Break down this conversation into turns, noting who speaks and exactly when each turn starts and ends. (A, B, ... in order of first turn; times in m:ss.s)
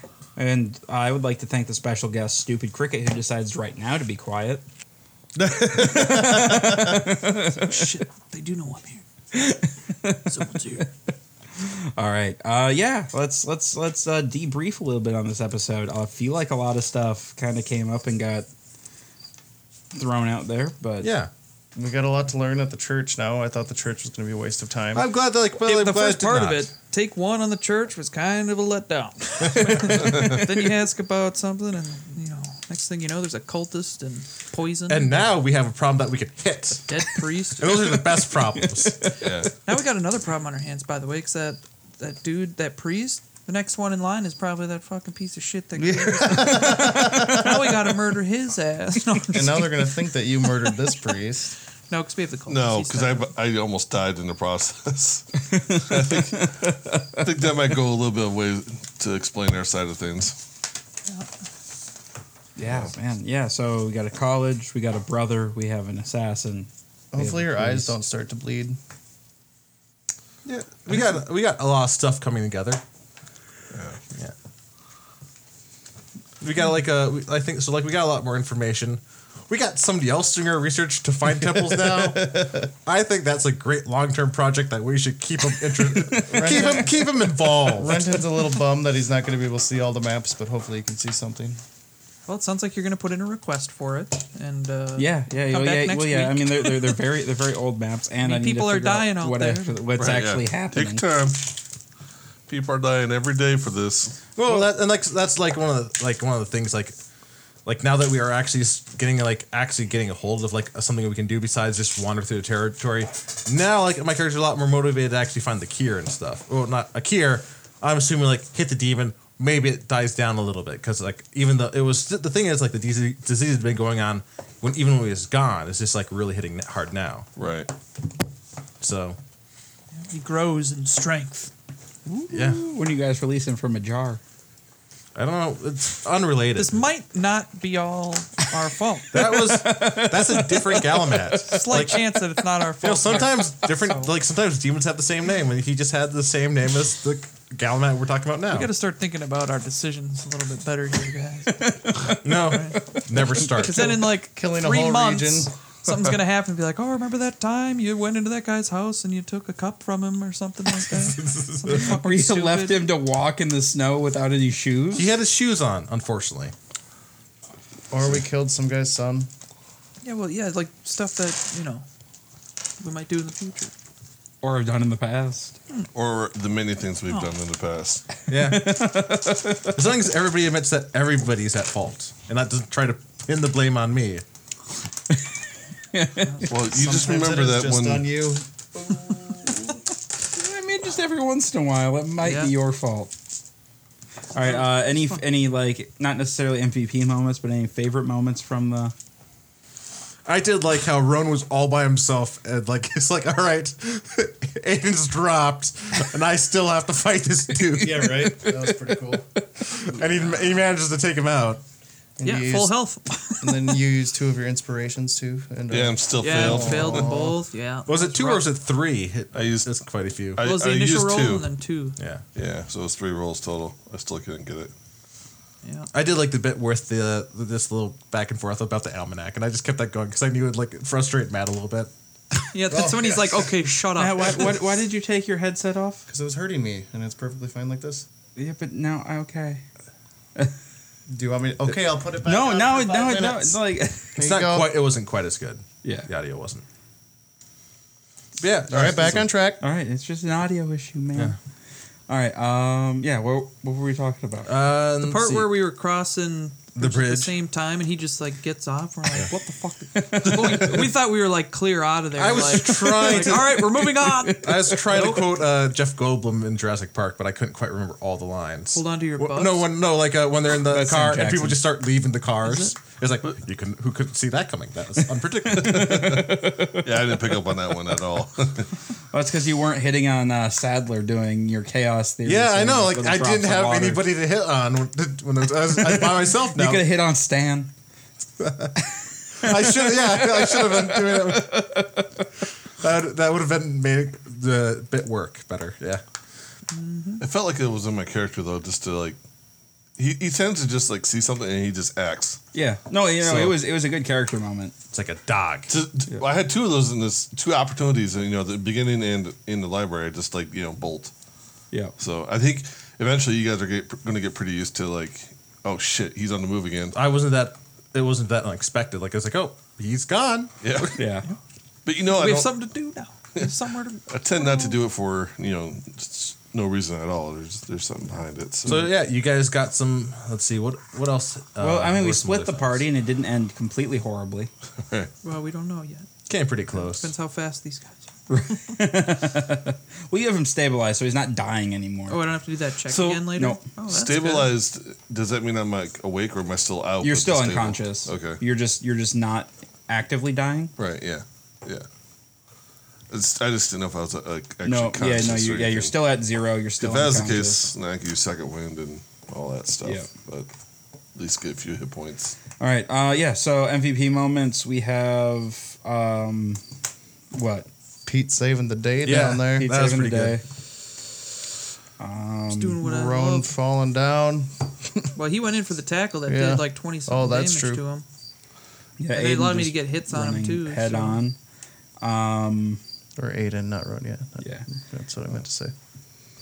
0:00.4-0:04.6 A
0:05.6-0:07.7 A
0:05.8-0:06.4 B
0:07.3-0:09.0 C
0:09.3-0:10.8 A
0:10.0-0:10.9 C
0:11.6-0:18.5 A
0:19.9-0:21.1 A
0:21.0-0:21.3 B
0:21.7-0:25.0 D
0:24.9-0:26.7 B
0:25.6-0:35.3 C
0:29.4-0:30.0 B
0:34.9-0:39.1 B
0:36.9-0:38.0 C
0:38.4-0:39.3 A
0:39.2-0:39.5 E
0:39.6-0:50.0 C
0:45.8-0:47.8 D
0:46.5-0:47.4 A
0:49.3-0:51.5 D
0:51.9-0:53.3 C
0:52.5-1:00.4 E
0:55.5-0:56.7 A
1:02.6-1:07.9 A
1:07.1-1:08.8 D
1:10.4-1:12.8 B
1:13.7-1:14.0 E
1:16.4-1:28.2 B
1:22.0-1:22.6 D
1:25.9-1:26.4 A
1:26.3-1:27.0 D
1:27.6-1:31.6 D
1:32.3-1:37.0 C
1:35.0-1:41.0 A
1:38.2-1:39.8 C
1:40.0-1:41.5 E
1:42.5-1:44.3 E
1:44.4-1:47.0 B
1:47.6-2:07.3 B
2:07.4-2:07.7 E
2:08.8-2:09.2 B
2:10.1-2:11.5 C
2:12.0-2:14.2 A
2:12.3-2:12.6 B
2:15.1-2:16.8 B
2:16.5-2:19.3 C
2:19.1-2:21.9 A
2:19.1-2:22.0 B
2:21.4-2:24.1 C
2:22.8-2:28.7 B
2:28.5-2:42.8 C
2:31.5-2:32.5 A
2:32.1-2:33.9 B
2:33.7-2:35.5 D
2:40.9-2:41.9 B
2:41.7-2:45.1 A
2:45.0-2:46.5 B
2:47.9-2:49.3 D
2:50.0-2:51.8 C
2:52.8-2:53.7 C
2:54.4-2:55.5 A
2:55.9-2:58.1 E
2:58.3-3:04.2 B
2:58.4-2:59.6 A
3:05.9-3:06.4 A
3:06.2-3:06.5 C
3:06.4-3:08.1 E
3:06.7-3:09.5 D
3:10.3-3:13.1 A
3:12.2-3:12.5 C
3:14.3-3:18.9 A
3:14.4-3:15.2 C
3:20.2-3:28.8 B
3:27.6-3:29.2 D
3:29.4-3:31.6 B
3:30.0-3:30.4 C
3:32.2-3:32.8 D
3:32.2-3:33.8 C
3:33.4-3:37.4 D
3:35.7-3:37.2 E
3:36.2-3:38.5 C
3:37.8-3:40.4 B
3:39.3-3:39.7 E
3:40.3-3:41.5 E
3:40.4-3:42.0 C
3:42.0-3:42.2 B
3:42.3-3:44.7 E
3:45.6-3:45.9 C
3:45.9-3:51.9 B
3:52.5-3:54.5 C
3:52.7-3:53.5 D
3:53.9-3:56.1 A
3:56.1-3:58.0 D
3:58.4-3:59.6 A
4:01.1-4:03.6 D
4:02.2-4:04.2 A
4:04.2-4:04.7 D
4:04.2-4:06.6 B
4:05.8-4:06.1 A
4:08.4-4:09.3 B
4:08.7-4:09.6 D
4:09.6-4:11.4 A
4:12.1-4:14.5 A
4:14.4-4:15.6 B
4:15.0-4:25.4 C
4:16.7-4:17.3 B
4:19.3-4:20.8 A
4:22.1-4:36.3 B
4:22.6-4:25.0 A
4:28.7-4:29.7 C
4:30.6-4:31.6 A
4:32.4-4:32.7 C
4:35.2-4:37.2 A
4:35.6-4:38.7 E
4:39.1-4:44.0 A
4:42.2-4:46.9 B
4:45.8-4:47.7 A
4:48.4-4:48.7 B
4:48.8-4:52.0 A
4:49.3-4:52.1 B
4:52.8-4:56.0 B
4:56.7-4:57.2 C
4:57.2-4:59.2 E
5:00.0-5:02.4 E
5:02.5-5:04.7 A
5:03.2-5:03.6 B
5:04.9-5:05.7 B
5:05.7-5:11.1 E
5:12.0-5:17.0 E
5:16.9-5:20.9 B
5:20.6-5:21.0 E
5:20.9-5:21.2 A
5:21.8-5:22.6 E
5:22.0-5:24.7 C
5:24.1-5:28.9 E
5:28.6-5:32.8 B
5:31.6-5:34.5 A
5:35.2-5:36.1 C
5:36.3-5:37.1 B
5:37.0-5:38.1 C
5:38.3-5:42.2 A
5:42.1-5:44.5 C
5:42.9-5:43.6 A
5:43.9-5:48.4 E
5:47.0-5:50.7 A
5:50.8-5:51.8 E
5:53.1-5:55.9 E
5:54.6-5:57.7 A
5:56.8-6:00.5 E
5:59.8-6:00.1 A
6:01.2-6:02.3 E
6:02.6-6:06.6 A
6:07.3-6:07.7 A
6:08.0-6:09.7 D
6:09.0-6:10.4 B
6:09.5-6:10.4 A
6:12.0-6:12.8 A
6:12.5-6:13.5 C
6:12.8-6:15.1 D
6:15.2-6:18.0 C
6:16.2-6:17.8 D
6:19.0-6:21.4 A
6:19.1-6:21.2 C
6:22.0-6:22.8 A
6:23.2-6:25.7 D